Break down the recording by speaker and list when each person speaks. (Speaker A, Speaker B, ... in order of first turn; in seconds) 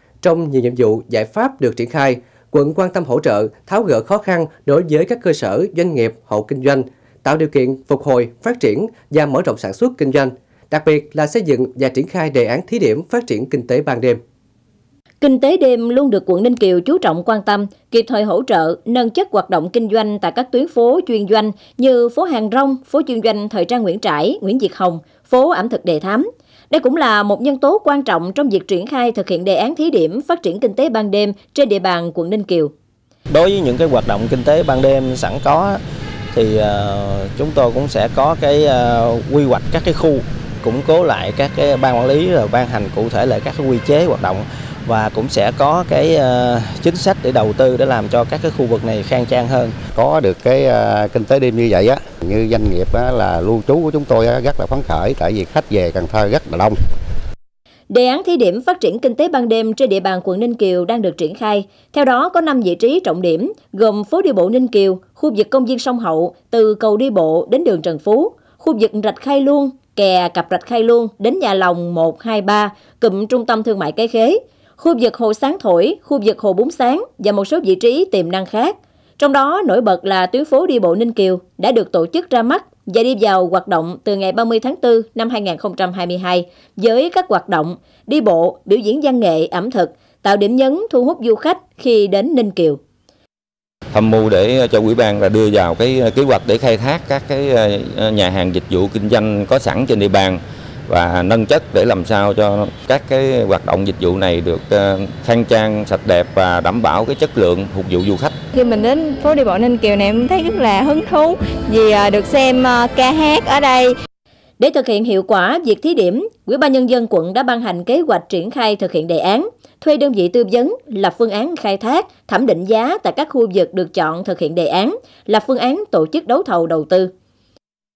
Speaker A: 0.2-14.2
Speaker B: 15.2-32.7, 57.9-92.8, 114.6-127.1
Speaker C: 33.3-35.8, 36.3-49.8
Speaker D: 50.0-56.8
Speaker E: 93.9-108.3
Speaker F: 108.5-113.9